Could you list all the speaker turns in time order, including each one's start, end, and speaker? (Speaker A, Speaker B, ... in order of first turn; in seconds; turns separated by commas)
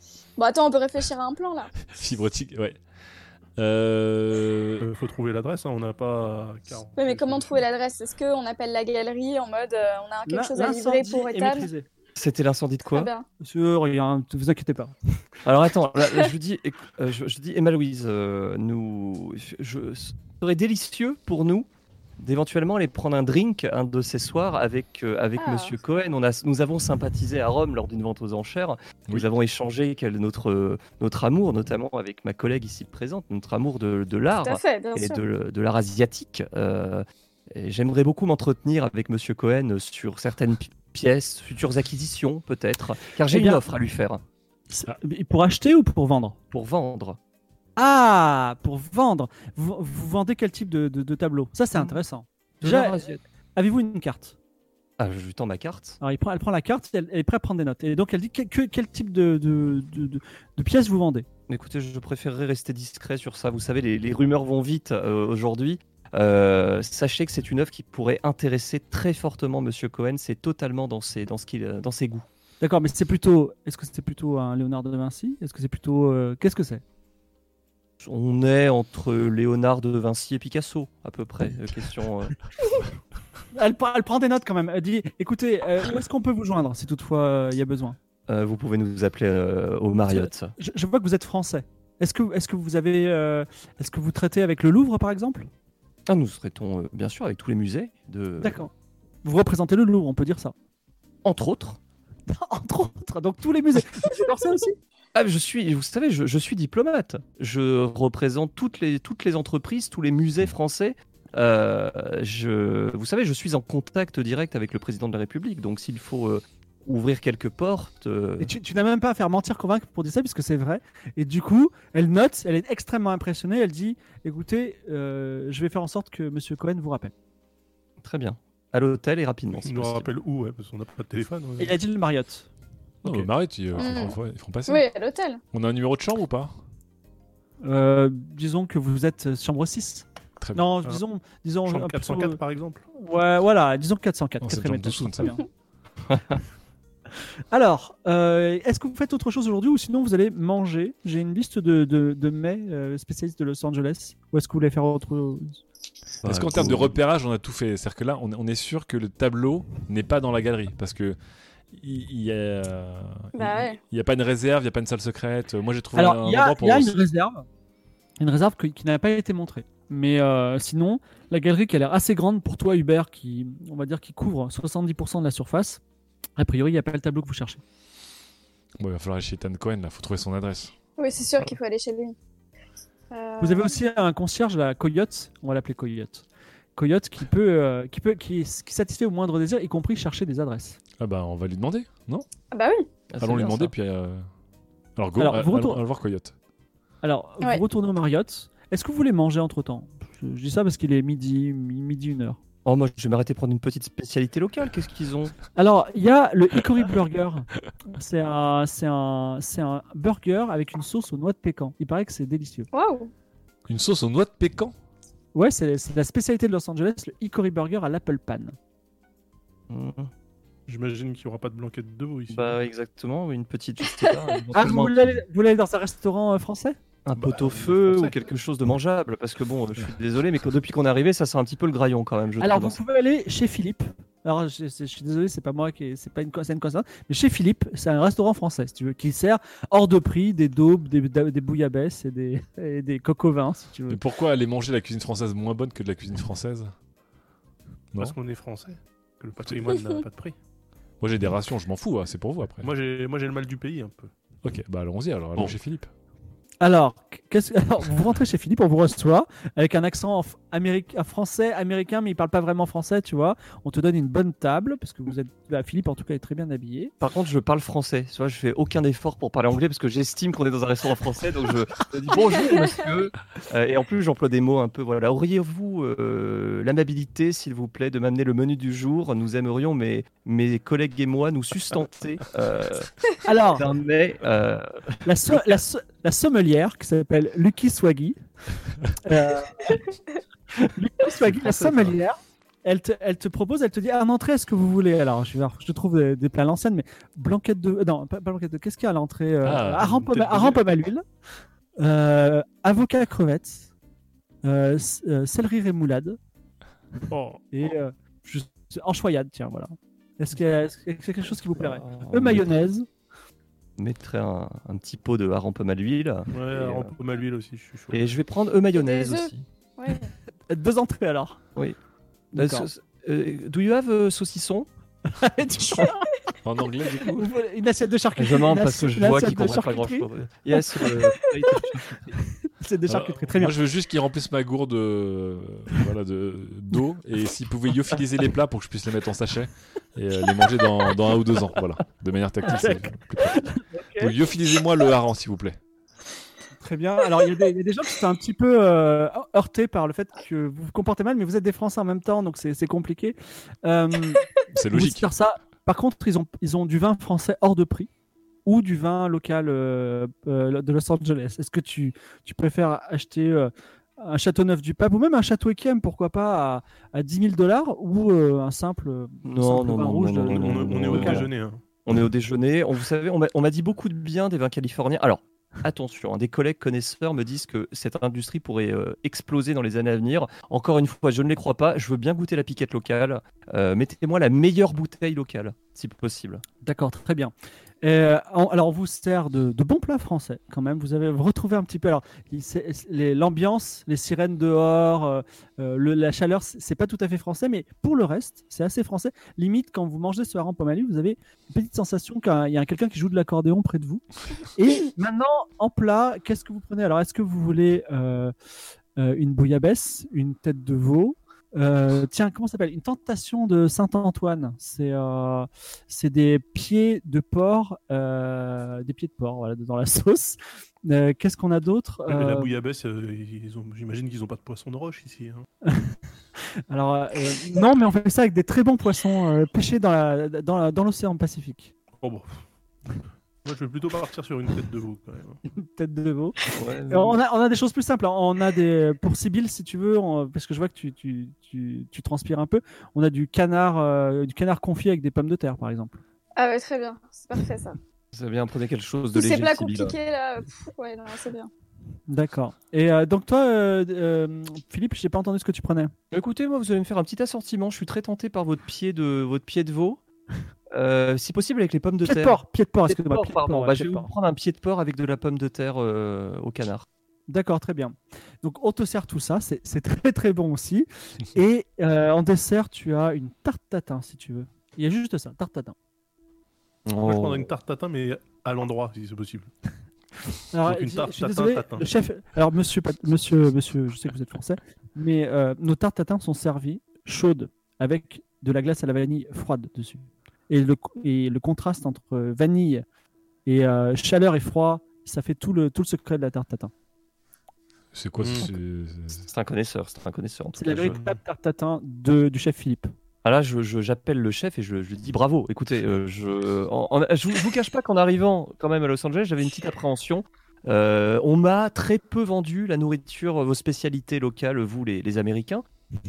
Speaker A: 0.4-1.7, Speaker B: 1.9-2.8, Speaker B: 3.6-4.9, Speaker C: 4.8-7.7, Speaker A: 7.0-11.7, Speaker D: 10.3-11.9, Speaker E: 12.2-13.1, Speaker A: 12.9-13.3, Speaker D: 13.4-14.9, Speaker E: 15.4-21.7, Speaker E: 22.2-44.2, Speaker A: 25.4-25.8, Speaker A: 34.4-35.2, Speaker D: 43.3-43.6, Speaker D: 44.7-46.4, Speaker E: 46.5-47.2, Speaker D: 47.8-53.0, Speaker E: 51.8-52.0, Speaker E: 52.6-53.2, Speaker D: 53.6-54.4, Speaker E: 55.0-56.0, Speaker D: 56.0-61.2, Speaker E: 61.5-72.2, Speaker D: 72.6-76.8, Speaker E: 78.0-82.4, Speaker D: 83.5-88.0, Speaker E: 88.3-90.5, Speaker D: 90.1-95.5, Speaker E: 96.1-98.6, Speaker D: 98.4-98.7, Speaker D: 99.2-100.5, Speaker E: 101.2-101.8, Speaker D: 102.3-104.8, Speaker E: 105.2-118.5, Speaker D: 118.4-127.1, Speaker E: 128.0-130.1, Speaker C: 129.6-131.8, Speaker D: 131.6-132.5, Speaker B: 133.0-134.8, Speaker A: 133.8-135.4, Speaker B: 135.5-136.5, Speaker D: 137.6-142.4, Speaker B: 140.4-140.7, Speaker C: 141.7-142.8, Speaker D: 142.9-145.4, Speaker B: 144.4-145.3, Speaker D: 147.5-155.6, Speaker E: 156.2-157.0, Speaker B: 156.2-161.2, Speaker B: 161.7-167.0, Speaker A: 163.3-163.8, Speaker D: 165.9-167.5, Speaker D: 168.2-175.8, Speaker D: 176.4-177.6, Speaker B: 178.8-180.7, Speaker A: 181.0-182.2, Speaker A: 183.1-183.8, Speaker D: 183.4-186.2, Speaker D: 186.8-190.8, Speaker B: 191.0-192.2, Speaker A: 192.5-192.9, Speaker E: 193.1-193.7, Speaker B: 193.2-194.3, Speaker B: 195.0-196.3, Speaker D: 195.2-195.8, Speaker D: 197.0-202.4, Speaker E: 202.7-205.4, Speaker D: 205.5-212.7, Speaker A: 212.7-213.1, Speaker B: 213.7-214.7, Speaker D: 215.3-218.6, Speaker E: 219.7-220.1, Speaker C: 220.7-222.6, Speaker E: 222.3-225.2, Speaker D: 224.5-226.8, Speaker E: 227.1-232.8, Speaker C: 227.2-228.2, Speaker D: 232.4-244.0, Speaker B: 243.9-246.7, Speaker C: 248.0-250.4, Speaker B: 251.0-252.7, Speaker C: 252.6-254.1, Speaker B: 254.4-255.9, Speaker D: 256.6-266.9, Speaker E: 267.0-282.9, Speaker A: 272.1-272.8, Speaker D: 283.2-283.6, Speaker E: 283.5-285.6, Speaker D: 285.0-288.2, Speaker D: 289.0-289.7, Speaker D: 290.8-301.0, Speaker C: 291.3-292.0, Speaker B: 299.4-300.0, Speaker C: 299.9-300.6, Speaker D: 301.8-303.7, Speaker D: 304.4-306.2, Speaker C: 307.1-307.4, Speaker D: 307.5-312.9, Speaker E: 311.6-312.5, Speaker E: 313.8-316.9, Speaker C: 316.3-318.1, Speaker E: 317.9-319.4, Speaker A: 318.8-320.1, Speaker D: 320.5-321.4, Speaker D: 322.3-322.7, Speaker E: 322.4-324.7, Speaker D: 325.2-325.9, Speaker B: 326.4-327.3, Speaker D: 327.1-330.1, Speaker E: 328.2-332.2, Speaker D: 332.4-333.6, Speaker B: 332.9-345.6, Speaker D: 342.5-344.1, Speaker D: 346.6-357.9, Speaker B: 354.5-355.1, Speaker D: 358.4-371.3, Speaker E: 369.2-371.3, Speaker C: 370.3-371.6, Speaker E: 371.9-386.4, Speaker D: 386.6-408.3, Speaker D: 409.0-422.5, Speaker C: 422.1-425.5, Speaker D: 425.6-426.0, Speaker D: 426.7-431.7, Speaker C: 432.0-432.4, Speaker C: 433.4-435.4, Speaker D: 435.5-436.4, Speaker E: 436.5-437.2, Speaker D: 436.9-446.0, Speaker A: 446.4-447.8, Speaker E: 448.1-450.0, Speaker A: 449.1-451.5, Speaker D: 452.1-455.9, Speaker E: 456.1-460.0, Speaker E: 460.7-466.9, Speaker D: 462.0-464.1, Speaker D: 467.3-475.8, Speaker E: 476.9-477.5, Speaker C: 477.0-479.5, Speaker D: 480.5-492.9, Speaker C: 480.6-481.9, Speaker D: 493.5-496.7, Speaker B: 497.9-499.3, Speaker C: 498.2-498.5, Speaker E: 499.3-501.0, Speaker D: 500.5-502.9, Speaker C: 500.8-501.2, Speaker E: 503.2-515.6